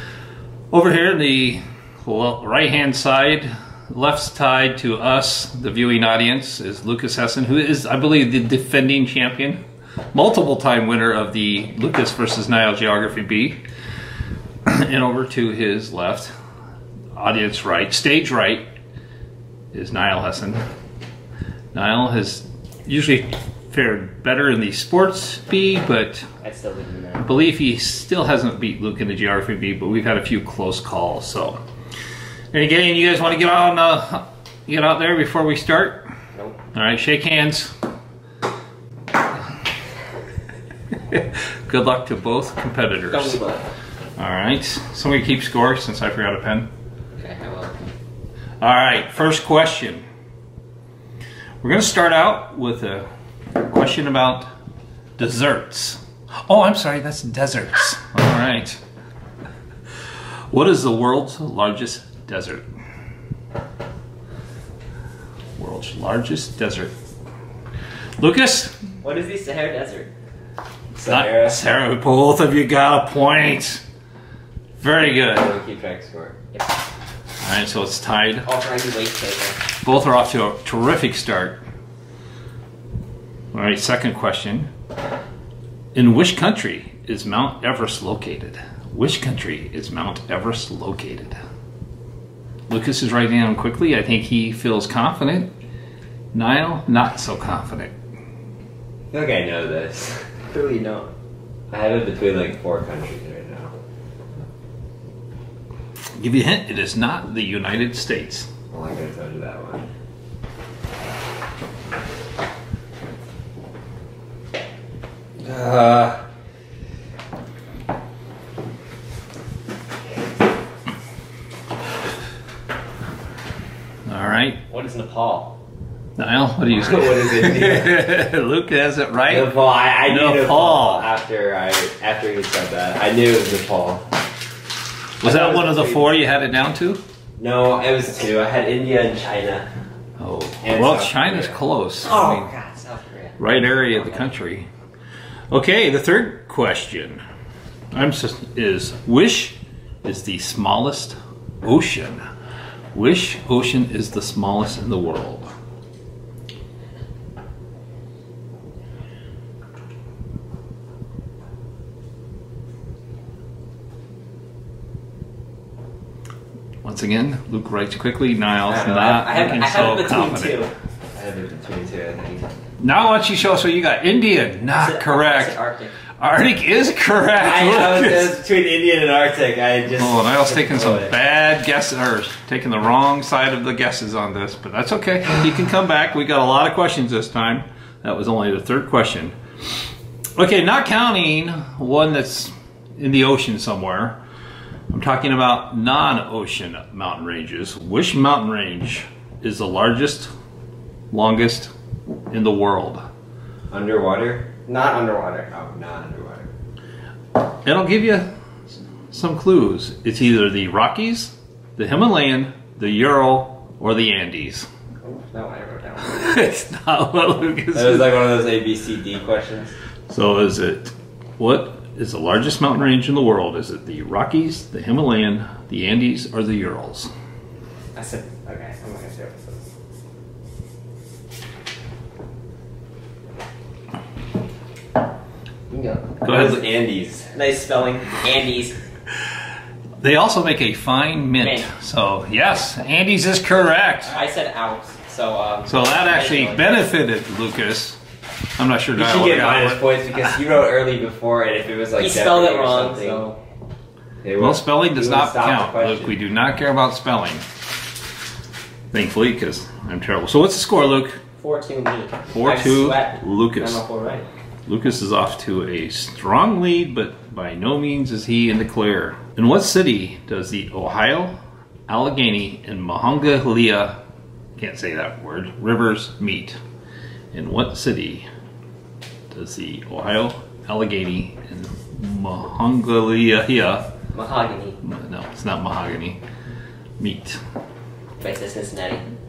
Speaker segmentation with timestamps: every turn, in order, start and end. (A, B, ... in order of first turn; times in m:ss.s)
0:00.7-0:09.6 A
0:10.1-0:13.6 A
0:14.7-0:16.3 A
0:17.2-0:18.6 A
0:19.7-0:20.6 A
0:21.7-0:26.3 A
0:26.4-0:27.3 B
0:27.2-0:31.6 A
0:32.5-0:36.0 A
0:36.7-0:37.7 A
0:41.1-0:43.4 A
0:43.1-0:43.7 B
0:44.2-0:46.7 A
0:47.2-0:47.8 B
0:48.6-0:50.0 A
0:51.6-0:54.5 A
0:55.2-0:58.8 A
1:00.5-1:02.6 A
1:05.6-1:06.9 A
1:08.2-1:08.8 A
1:09.0-1:10.1 B
1:11.0-1:11.6 C
1:11.1-1:13.8 A
1:14.8-1:15.5 A
1:15.3-1:16.4 C
1:17.4-1:18.5 A
1:18.4-1:19.6 B
1:19.8-1:21.6 A
1:23.5-1:24.7 A
1:26.0-1:31.4 A
1:32.7-1:35.5 A
1:36.3-1:37.9 A
1:39.1-1:40.3 C
1:40.5-1:41.1 B
1:41.7-1:43.7 C
1:46.2-1:48.5 A
1:48.7-1:49.9 C
1:55.4-1:56.2 C
2:04.1-2:04.6 A
2:04.7-2:05.5 B
2:06.2-2:11.1 A
2:06.7-2:08.0 C
2:09.3-2:14.0 C
2:15.2-2:17.0 A
2:15.2-2:16.1 C
2:17.4-2:19.7 C
2:20.2-2:22.5 A
2:20.6-2:21.6 C
2:22.0-2:24.3 B
2:23.4-2:24.7 A
2:25.5-2:27.2 A
2:27.9-2:32.2 A
2:32.9-2:35.5 A
2:46.8-2:50.6 A
2:48.7-2:50.7 B
2:51.2-2:52.5 C
2:52.8-2:55.6 A
2:54.7-2:56.0 B
2:56.2-2:58.4 A
2:57.4-3:01.2 C
3:00.0-3:09.4 A
3:10.4-3:14.2 A
3:14.9-3:20.3 A
3:21.1-3:21.7 A
3:22.3-3:23.0 A
3:23.7-3:24.5 C
3:24.7-3:25.5 B
3:25.5-3:26.5 C
3:27.6-3:34.7 A
3:35.0-3:36.4 B
3:36.0-3:38.3 A
3:37.8-3:39.7 C
3:40.1-3:47.1 A
3:48.0-3:49.6 B
3:55.7-3:56.4 B
3:56.2-3:56.6 A
3:56.2-3:57.3 C
3:57.3-3:58.8 B
4:00.0-4:04.2 A
4:01.4-4:01.7 B
4:04.1-4:06.8 B
4:05.7-4:08.0 A
4:08.6-4:09.8 A
4:08.9-4:13.2 C
4:12.0-4:13.4 B
4:14.2-4:16.2 C
4:14.4-4:17.4 A
4:18.9-4:21.2 A
4:21.4-4:24.3 B
4:22.3-4:23.8 A
4:24.7-4:31.4 A
4:31.9-4:34.0 A
4:34.6-4:36.6 A
4:37.3-4:38.3 A
4:39.3-4:43.9 A
4:44.1-4:44.8 B
4:44.8-4:46.2 A
4:47.0-4:47.4 A
4:48.2-4:49.0 B